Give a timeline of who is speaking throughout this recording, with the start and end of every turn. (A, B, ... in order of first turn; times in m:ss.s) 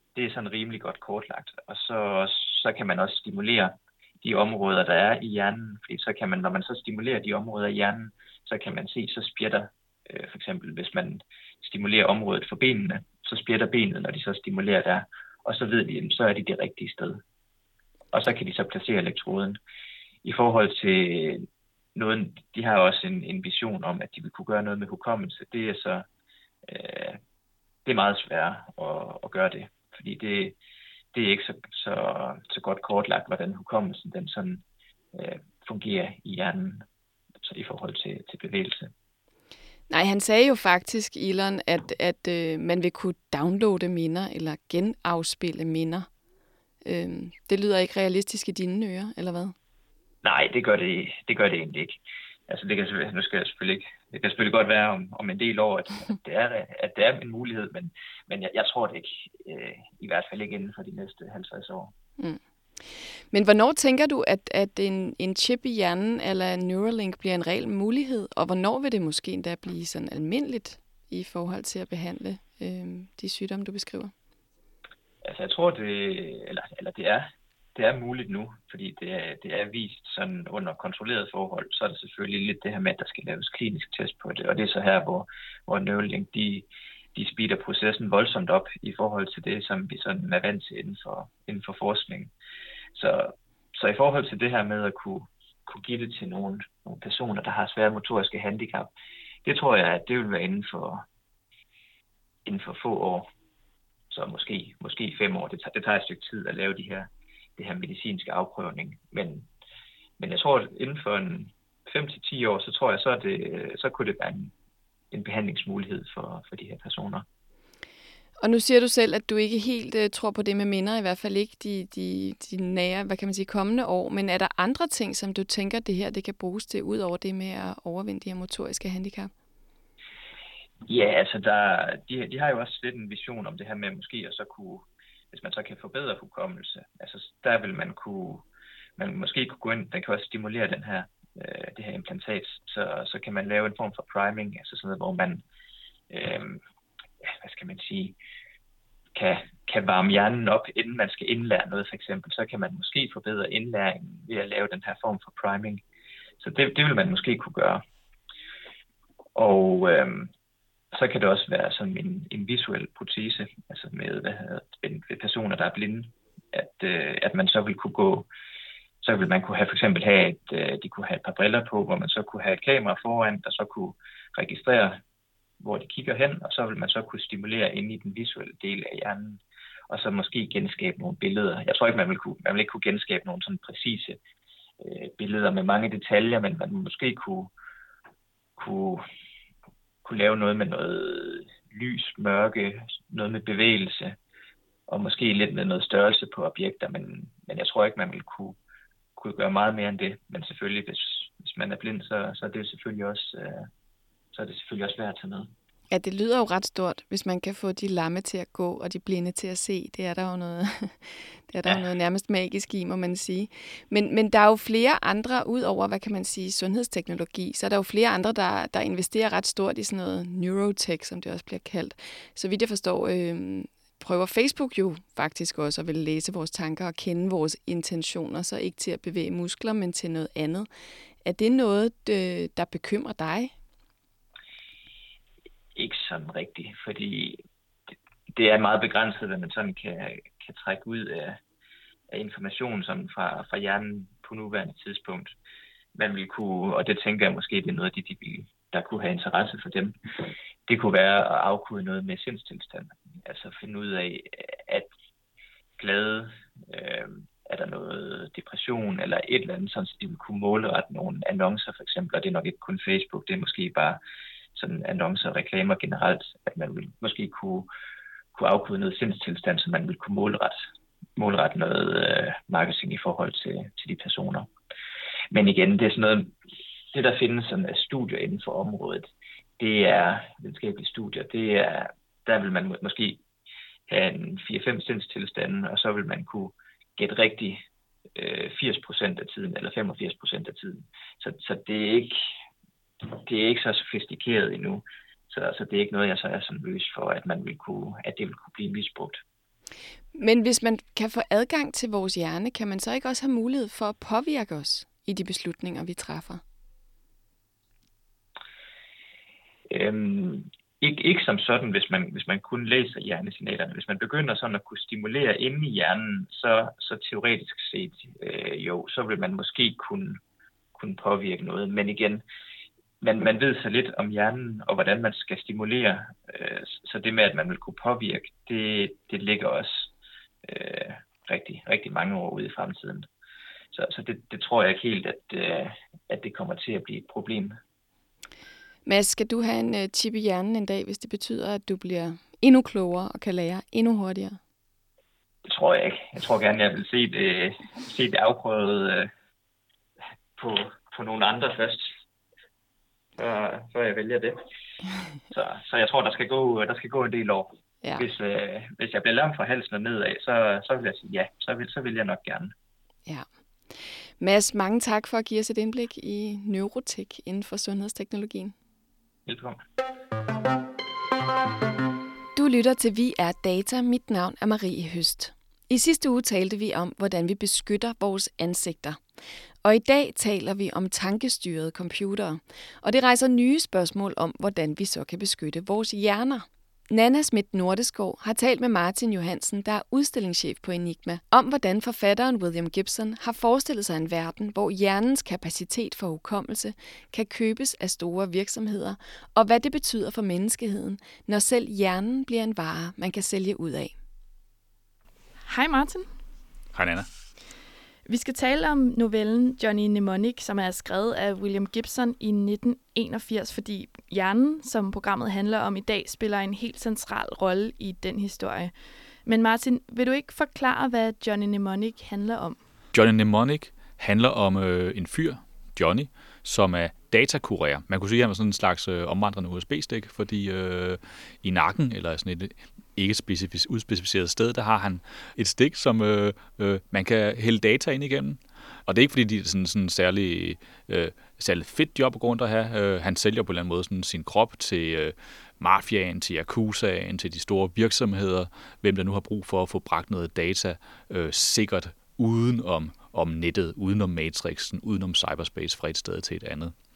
0:00.1-0:17.2 A
0:18.1-0:19.6 A
0:20.2-0:26.1 A
0:26.6-0:27.2 A
0:27.9-0:30.5 A
0:31.1-0:36.8 A
0:37.4-0:38.9 A
0:39.9-0:46.1 B
0:46.8-0:49.5 B
0:50.2-1:01.9 A
1:02.2-1:14.1 B
1:15.2-1:32.3 A
1:32.9-1:38.9 A
1:39.4-1:41.0 A
1:42.4-1:43.3 A
1:44.1-1:49.5 A
1:50.2-1:54.5 A
1:55.1-1:57.2 A
1:58.4-2:09.3 B
2:10.9-2:18.4 A
2:19.0-2:25.4 A
2:26.1-2:26.6 A
2:27.2-2:28.2 A
2:29.1-2:35.8 A
2:36.4-2:37.8 A
2:39.4-2:40.3 A
2:40.9-2:48.3 A
2:49.0-2:55.0 A
2:55.6-3:04.2 A
3:04.8-3:07.5 A
3:08.6-3:09.0 A
3:10.0-3:14.2 A
3:14.9-3:18.6 A
3:19.2-3:23.7 A
3:24.3-3:25.5 A
3:25.9-3:50.7 B
3:51.2-3:53.5 B
3:55.7-3:57.4 A
3:58.4-4:01.4 A
4:02.1-4:05.3 A
4:06.0-4:14.9 A
4:15.8-4:24.0 A
4:24.5-4:27.7 A
4:28.3-4:30.5 A
4:31.2-4:34.5 A
4:35.3-4:36.3 A
4:36.9-4:43.2 A
4:43.9-4:47.6 A
4:48.2-4:52.2 A
4:53.0-4:59.2 A
5:00.1-5:06.4 B
5:09.7-5:20.2 A
5:20.7-5:22.2 A
5:23.0-5:29.9 A
5:30.4-5:33.1 A
5:33.7-5:37.6 A
5:38.9-5:44.4 B
5:45.4-5:49.1 A
5:50.4-5:51.9 A
5:53.2-5:54.4 A
5:55.3-6:02.5 A
6:04.2-6:08.5 B
6:09.2-6:09.6 A
6:12.4-6:19.0 B
6:19.6-6:43.9 B
6:45.4-6:46.1 C
6:46.7-6:47.1 D
6:48.1-7:02.6 C
7:02.9-7:36.8 D